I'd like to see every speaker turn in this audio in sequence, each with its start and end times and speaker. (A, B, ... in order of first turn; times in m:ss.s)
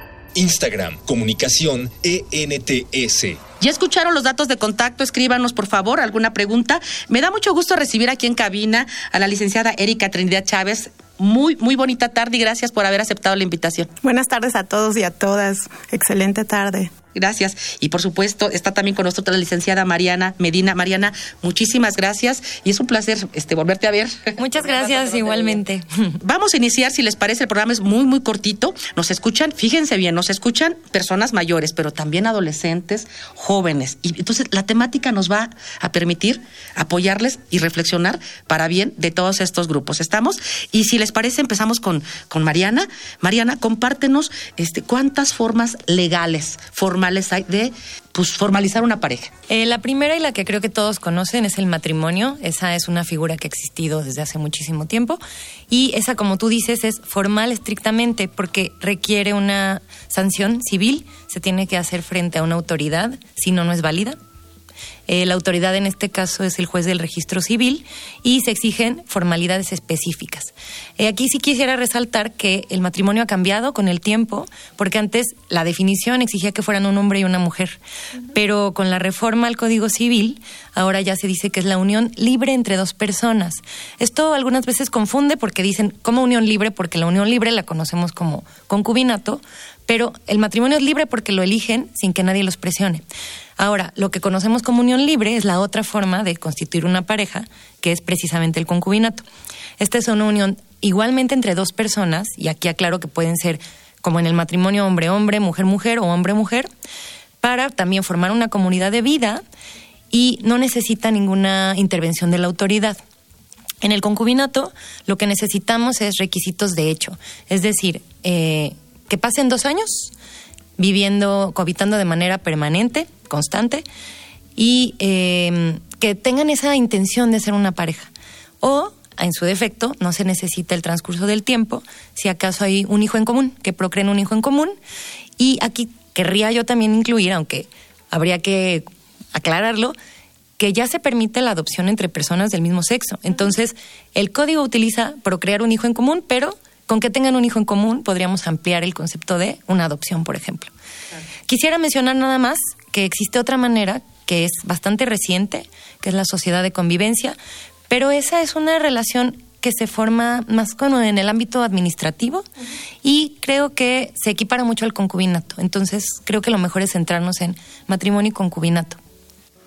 0:00.3-0:03.4 A
0:03.6-0:13.9 B
0:14.0-0:16.9 C
0:17.1-0:25.6 B
0:24.4-0:26.2 D
0:26.2-0:49.3 B
0:49.5-1:04.2 D
1:05.1-1:17.8 D
1:18.3-1:33.0 D
1:33.6-1:39.2 D
1:39.8-1:46.7 D
1:47.4-1:49.4 D
1:50.1-1:53.0 D
1:53.8-2:00.1 D
2:00.8-2:03.8 D
2:04.6-2:14.8 D
2:15.4-2:20.0 D
2:20.6-2:30.7 D
2:31.5-2:37.4 D
2:37.9-2:42.4 D
2:43.0-2:49.0 D